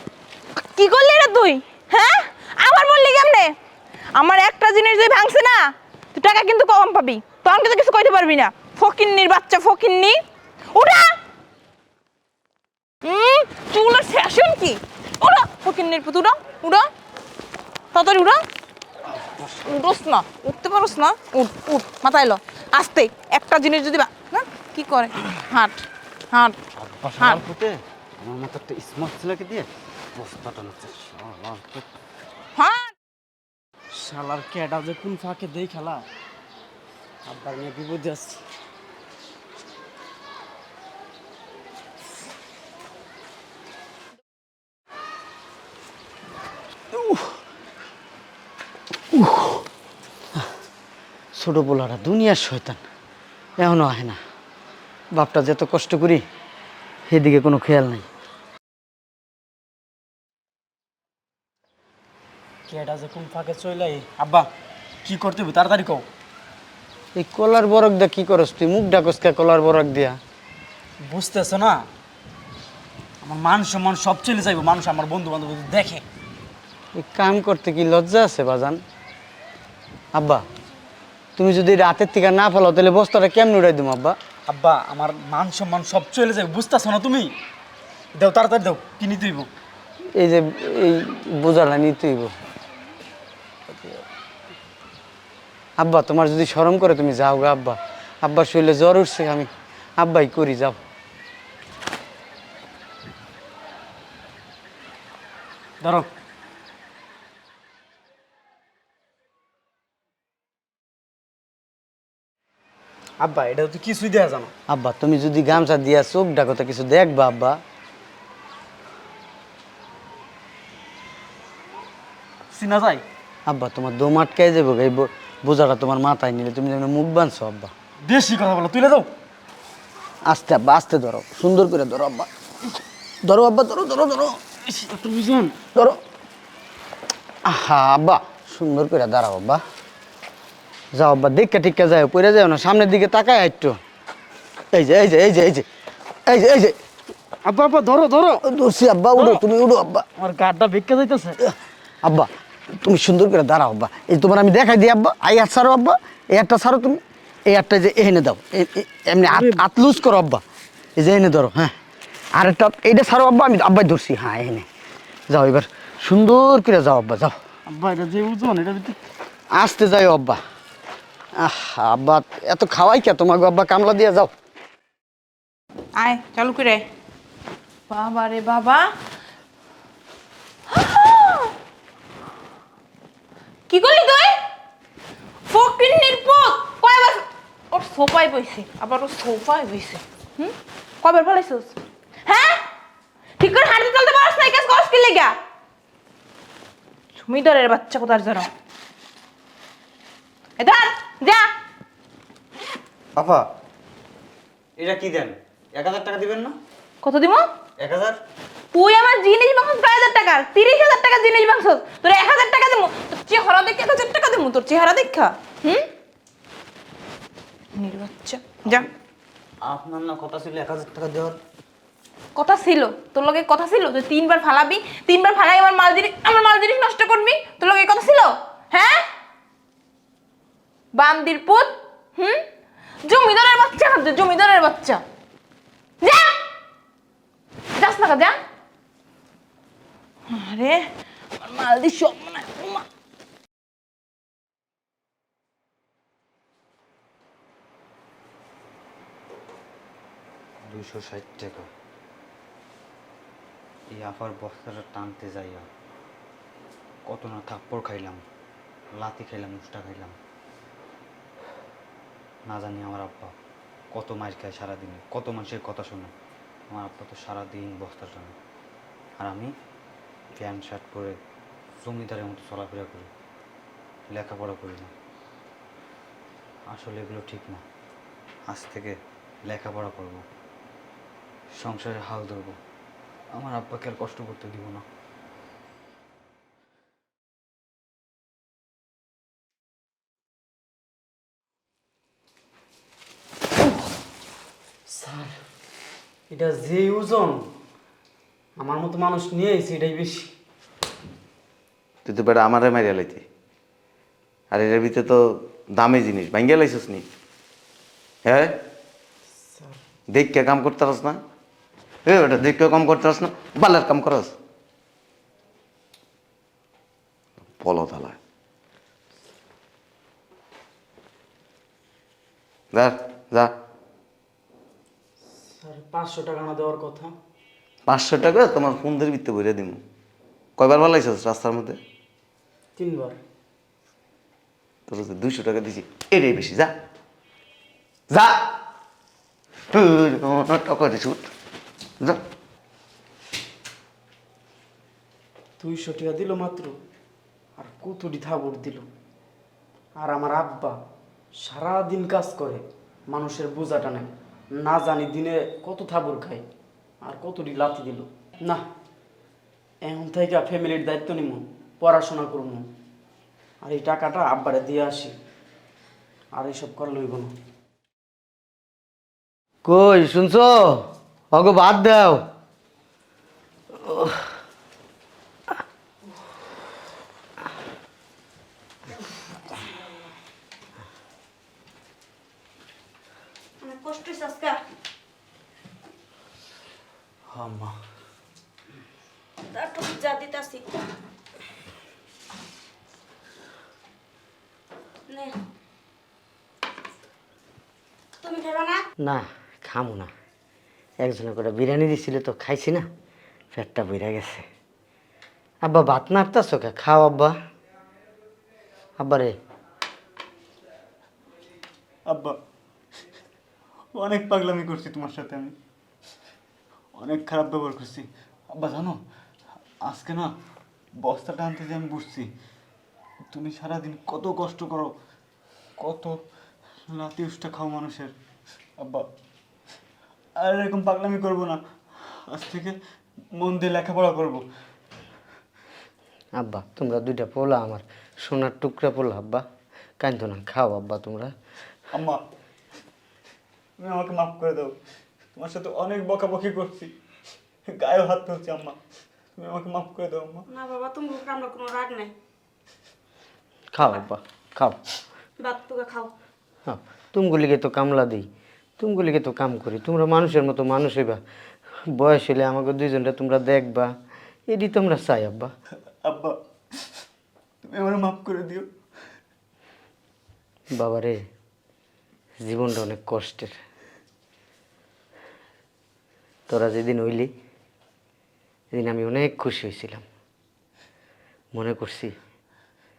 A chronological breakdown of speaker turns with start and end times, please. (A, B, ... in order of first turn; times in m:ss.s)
0:00.7-0:03.5 A
0:04.2-0:10.2 A
0:10.7-0:11.2 A
0:13.0-0:16.9 A
0:17.9-0:18.4 A
0:19.6-0:26.6 A
0:26.8-0:31.9 B
0:32.6-0:32.9 A
0:33.9-0:36.0 C
0:37.3-0:38.4 C
0:49.2-0:49.6 D
0:51.4-0:52.8 D
0:53.6-0:54.2 D
0:55.1-0:56.2 D
0:57.1-0:58.1 D
1:02.7-1:04.5 C
1:05.0-1:06.0 C
1:07.2-1:10.2 D
1:11.0-1:11.9 C
1:13.2-1:16.0 C
1:17.0-1:18.8 D
1:20.1-1:20.4 D
1:21.4-1:24.2 D
1:24.5-1:27.3 C
1:28.2-1:29.5 C
1:30.2-1:32.3 D
1:35.8-1:40.8 D
1:45.8-1:46.1 C
1:53.2-1:54.5 C
1:54.7-1:57.6 D
2:02.5-2:03.0 C
2:03.5-2:07.7 D
2:08.0-2:09.1 C
2:10.3-2:12.3 D
2:13.2-2:14.4 D
2:14.6-2:15.6 C
2:17.5-2:19.6 D
2:20.9-2:23.8 D
2:24.7-2:25.7 D
2:26.3-2:26.8 D
2:27.4-2:28.4 C
2:28.5-2:30.1 D
2:29.2-2:29.4 C
2:30.2-2:31.4 C
2:32.0-2:40.4 D
2:39.2-2:39.6 C
2:41.0-2:41.7 D
2:42.4-2:44.7 D
2:45.3-2:47.3 D
2:47.7-2:49.0 C
2:49.6-2:50.4 D
2:51.4-2:54.3 D
2:56.0-2:56.9 A
2:57.9-2:58.9 A
3:00.7-3:01.5 A
3:03.7-3:04.4 A
3:05.5-3:12.6 A
3:13.4-3:15.4 A
3:17.2-3:18.5 A
3:20.6-3:21.5 A
3:23.2-3:23.4 B
3:24.8-3:26.6 B
3:27.0-3:27.5 A
3:27.8-3:28.2 B
3:28.7-3:35.9 A
3:37.8-3:38.9 A
3:39.6-3:41.4 B
3:42.4-3:49.0 A
3:50.9-3:52.4 A
3:53.0-3:55.0 A
3:56.0-3:56.3 A
3:57.8-3:58.4 A
4:00.3-4:00.8 A
4:01.4-4:02.9 A
4:10.7-4:11.7 B
4:13.9-4:15.7 B
4:17.1-4:18.2 B
4:19.0-4:20.2 B
4:22.5-4:23.4 B
4:23.9-4:26.1 B
4:26.7-4:28.4 B
4:29.2-4:29.5 B
4:30.4-4:31.2 B
4:31.8-4:33.1 B
4:34.1-4:34.9 B
4:36.7-4:37.6 B
4:38.5-4:39.0 B
4:39.5-4:40.2 B
4:41.6-4:42.6 B
4:43.4-4:44.8 B
4:54.9-4:55.4 C
4:56.3-4:57.5 C
4:58.6-5:00.3 C
5:02.0-5:03.2 E
5:04.5-5:05.1 E
5:05.8-5:07.1 E
5:08.2-5:08.6 E
5:10.1-5:11.2 E
5:12.1-5:14.3 E
5:17.6-5:18.2 E
5:22.7-5:23.5 E
5:25.5-5:27.1 C
5:27.9-5:29.8 E
5:30.6-5:31.8 E
5:32.8-5:33.2 C
5:34.9-5:36.7 E
5:38.1-5:38.5 E
5:39.7-5:41.3 E
5:45.6-5:46.8 C
5:47.6-5:48.9 C
5:50.0-5:50.8 C
5:51.4-5:56.4 C
5:57.0-5:58.6 C
5:59.8-6:02.7 C
6:03.6-6:05.2 C
6:06.3-6:07.3 C
6:09.6-6:12.2 D
6:13.8-6:14.1 D
6:23.6-6:24.6 F
6:27.3-6:27.7 B
6:29.5-6:30.6 F
6:35.1-6:35.4 F
6:38.2-6:38.8 F
6:39.0-6:40.1 D
6:41.0-6:42.8 D
6:43.5-6:44.4 D
6:45.6-6:47.4 D
6:49.0-6:49.3 D
6:52.1-6:52.4 B
6:54.0-6:55.6 B
6:57.0-6:59.0 B
6:59.8-7:00.3 B
7:01.0-7:02.3 B
7:03.3-7:04.9 B
7:05.8-7:06.2 B
7:06.9-7:08.1 B
7:08.8-7:09.1 B
7:10.4-7:11.6 B
7:12.3-7:12.8 B
7:13.4-7:14.4 B
7:16.4-7:19.4 D
7:20.0-7:21.3 D
7:21.9-7:22.2 B
7:23.8-7:24.7 B
7:25.4-7:26.9 B
7:27.7-7:28.8 B
7:29.4-7:30.4 B
7:30.5-7:32.1 F
7:33.7-7:34.8 D
7:35.4-7:36.1 F
7:36.7-7:38.3 D
7:38.8-7:41.2 D
7:41.9-7:43.9 D
7:44.5-7:45.5 D
7:46.0-7:46.4 B
7:47.7-7:48.7 B
7:50.7-7:51.2 D
7:52.4-7:53.6 D
7:56.5-7:57.3 D
7:58.7-8:00.0 D
8:01.6-8:02.1 D